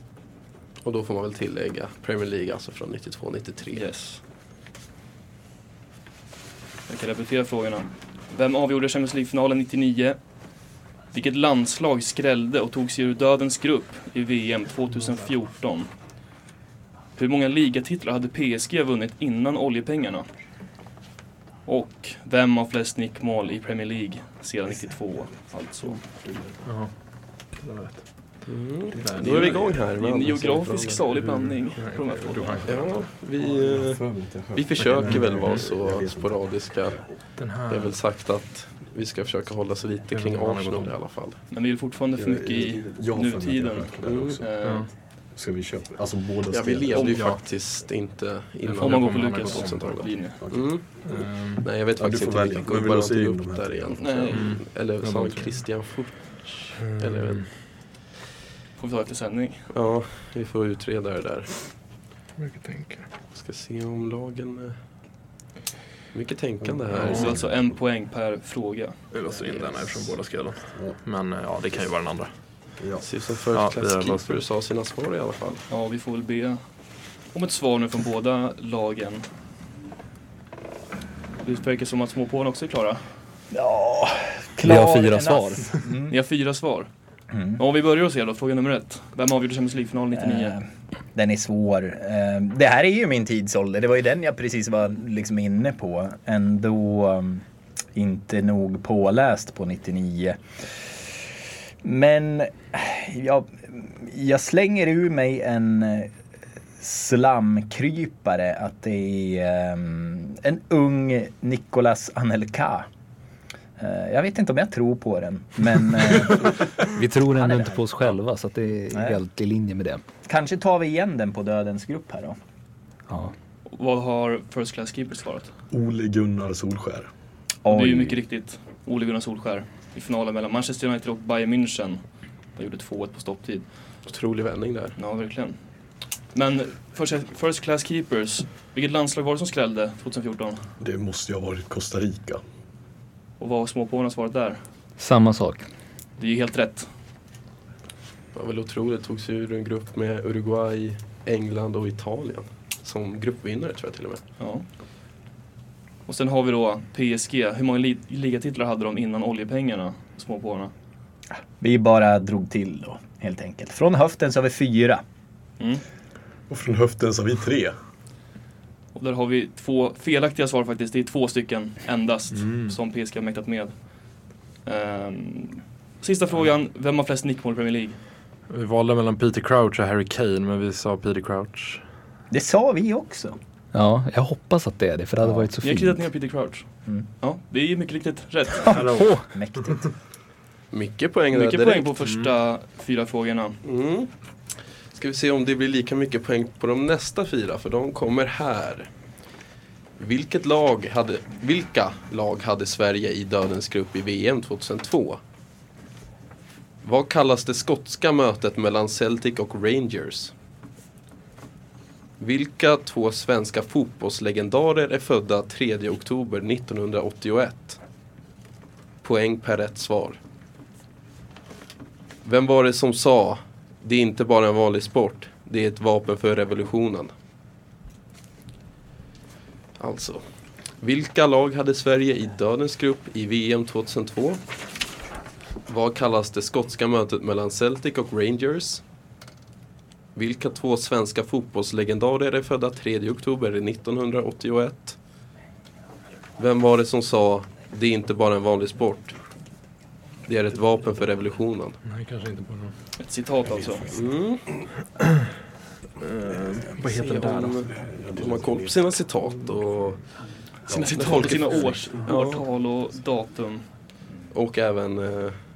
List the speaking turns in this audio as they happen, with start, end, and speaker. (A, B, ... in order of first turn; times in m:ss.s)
0:00.8-0:03.8 A
0:03.7-0:04.2 B
0:06.9-0:10.2 B
0:11.1-0:15.9 B
0:17.2-0:20.3 B
0:21.7-0:26.3 B
0:26.2-0:26.6 C
0:26.6-0:27.0 D
0:27.5-0:28.0 D
0:28.5-0:31.0 A
0:28.9-0:29.6 D
0:29.2-0:32.8 B
0:31.1-0:33.1 D
0:32.7-0:37.2 A
0:33.7-0:37.1 C
0:34.8-0:35.7 D
0:37.4-0:38.0 D
0:37.7-0:41.4 A
0:40.1-0:40.9 D
0:41.5-0:44.9 B
0:42.2-0:44.5 C
0:44.0-0:44.4 A
0:44.6-0:44.9 D
0:45.4-0:47.1 C
0:46.5-0:51.0 A
0:46.9-0:47.3 B
0:47.1-0:47.4 D
0:48.6-0:50.1 D
0:48.8-0:50.4 B
0:50.4-0:50.8 C
0:51.0-0:51.7 D
0:51.6-0:57.5 A
0:52.0-0:54.1 C
0:54.0-0:54.5 B
0:54.3-0:55.6 D
0:56.8-0:57.5 D
0:58.8-0:59.7 B
0:59.7-1:01.5 A
1:02.4-1:03.1 D
1:03.3-1:04.8 A
1:06.1-1:07.4 A
1:06.6-1:07.7 C
1:07.0-1:07.3 D
1:07.0-1:09.0 B
1:09.1-1:12.3 D
1:10.7-1:11.0 C
1:12.8-1:13.1 C
1:13.0-1:15.6 A
1:13.5-1:14.4 D
1:15.7-1:16.6 B
1:17.3-1:19.3 B
1:21.4-1:23.0 B
1:23.5-1:26.1 E
1:24.6-1:25.7 F
1:26.1-1:26.9 B
1:27.3-1:27.6 E
1:27.6-1:30.6 B
1:30.2-1:30.6 E
1:31.2-1:37.4 E
1:38.0-1:40.9 E
1:41.8-1:46.1 E
1:46.8-1:52.9 E
1:53.8-1:57.8 E
1:56.9-2:00.0 F
2:00.3-2:02.4 E
2:03.1-2:03.3 F
2:03.7-2:05.5 B
2:05.7-2:07.1 C
2:07.6-2:08.2 E
2:07.7-2:12.0 B
2:12.6-2:13.7 B
2:14.1-2:15.0 A
2:15.0-2:15.6 B
2:16.3-2:20.6 B
2:20.8-2:22.4 C
2:23.4-2:24.6 B
2:25.0-2:25.7 F
2:26.2-2:26.9 B
2:28.3-2:34.2 A
2:34.4-2:34.6 B
2:36.1-2:40.7 B
2:41.6-2:45.0 E
2:46.5-2:47.8 C
2:48.9-2:53.9 B
2:52.3-2:52.8 D
2:54.6-2:58.0 B
2:58.5-3:01.8 D
3:02.3-3:03.4 E
3:03.7-3:06.0 F
3:05.2-3:05.5 E
3:05.6-3:06.7 B
3:07.2-3:08.8 B
3:08.7-3:09.9 E
3:08.7-3:09.2 D
3:10.7-3:11.9 A
3:11.3-3:13.6 B
3:12.0-3:12.3 D
3:13.6-3:14.1 A
3:14.9-3:18.9 A
3:20.0-3:25.2 A
3:26.8-3:30.3 A
3:32.2-3:37.8 A
3:39.0-3:40.2 A
3:42.2-3:47.1 A
3:49.8-3:50.2 A
3:50.8-3:54.4 A
3:55.7-3:58.8 A
4:00.2-4:05.0 A
4:06.4-4:09.2 A
4:10.3-4:11.8 A
4:11.8-4:12.7 D
4:13.0-4:13.9 B
4:13.5-4:14.1 C
4:13.9-4:14.6 A
4:16.0-4:17.6 D
4:16.3-4:18.9 C
4:16.9-4:20.0 A
4:20.7-4:22.0 C
4:20.7-4:23.7 B
4:20.9-4:22.5 A
4:24.3-4:25.4 A